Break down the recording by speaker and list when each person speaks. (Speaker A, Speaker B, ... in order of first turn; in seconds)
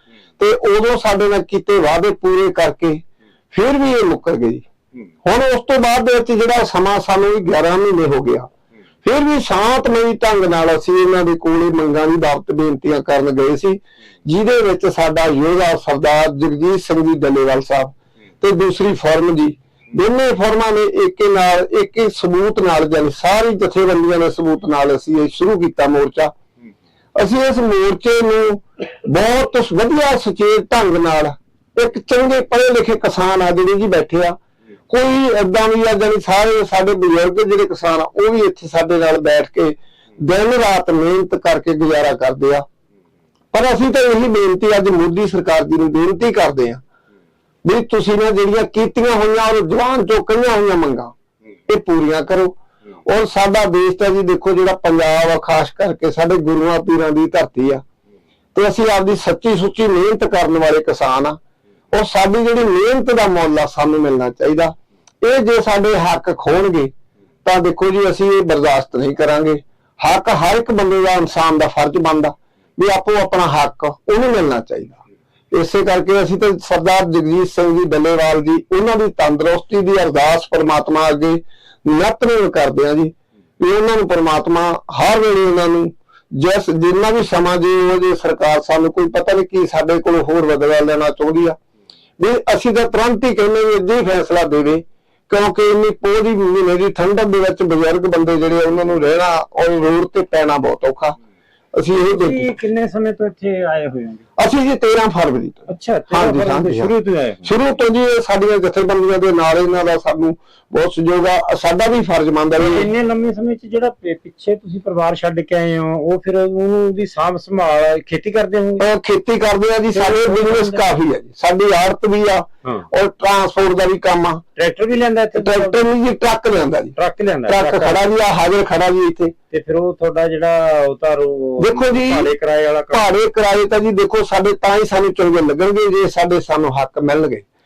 Speaker A: 0.4-4.7, 5.2-8.5, 9.0-26.3, 27.2-34.4, 34.9-42.6, 43.5-46.8, 47.6-51.1, 51.7-57.8, 58.5-61.4, 61.9-66.9, 67.5-91.6, 92.2-101.2, 101.7-102.5, 104.4-112.9, 118.8-124.4, 125.3-129.3, 131.6-132.3, 132.9-137.4
Speaker B: 102.1-104.2, 105.7-107.5, 112.6-118.8, 119.9-120.8, 124.6-125.9, 127.0-128.1, 129.5-133.1